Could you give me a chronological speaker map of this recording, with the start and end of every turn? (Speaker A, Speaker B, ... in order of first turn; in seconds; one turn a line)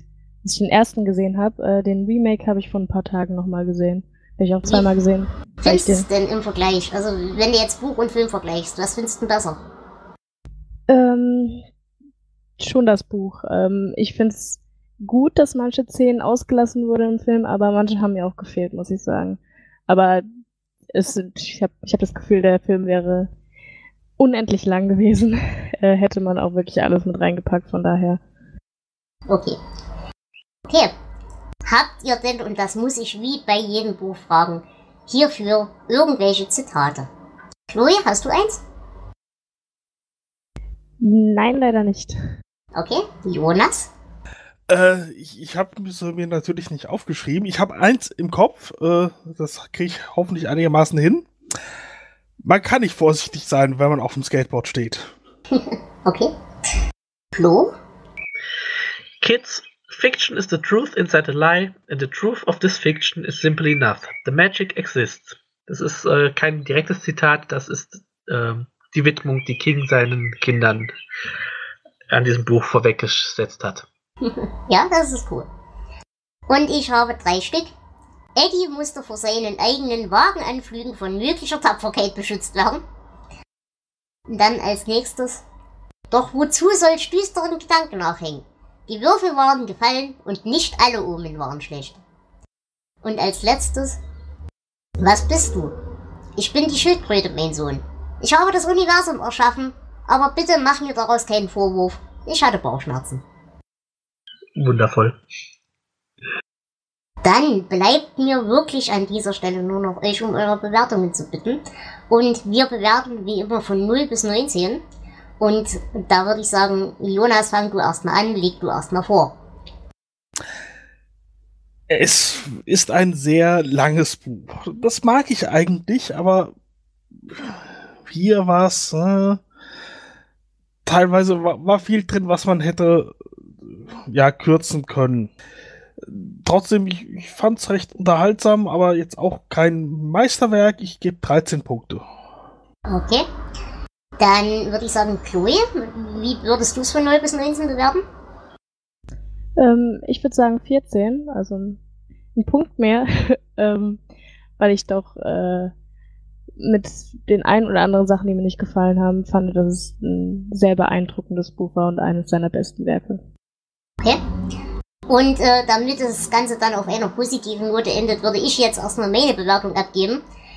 Speaker A: 0.4-6.1
Speaker B: 4.6-4.9
Speaker B: 5.6-9.6
Speaker A: 10.9-11.6
Speaker A: 12.6-20.2
Speaker A: 20.9-23.3
Speaker A: 24.2-28.2
Speaker B: 29.3-29.6
Speaker B: 30.7-30.9
Speaker B: 31.7-37.1
Speaker B: 37.7-38.6
Speaker A: 41.0-42.2
Speaker B: 42.7-43.9
Speaker C: 44.7-51.3
Speaker C: 52.4-55.1
Speaker B: 55.5-56.3
Speaker B: 57.3-57.7
Speaker D: 59.2-70.9
Speaker D: 72.1-73.8
Speaker B: 74.7-75.5
Speaker B: 76.5-77.7
Speaker B: 78.4-82.8
Speaker B: 84.3-85.4
Speaker B: 86.1-92.0
Speaker B: 93.0-94.0
Speaker B: 95.0-95.8
Speaker B: 96.4-103.2
Speaker D: 104.5-105.2
Speaker B: 107.2-114.8
Speaker B: 115.4-119.3
Speaker C: 121.9-126.5
Speaker C: 127.3-129.4
Speaker C: 130.8-133.1
Speaker C: 133.6-135.3
Speaker C: 136.0-142.0
Speaker B: 142.8-143.3
Speaker B: 144.2-148.0
Speaker A: 149.6-151.8
Speaker A: 152.3-154.0
Speaker A: 154.6-155.7
Speaker A: 156.6-163.2
Speaker B: 165.1-170.2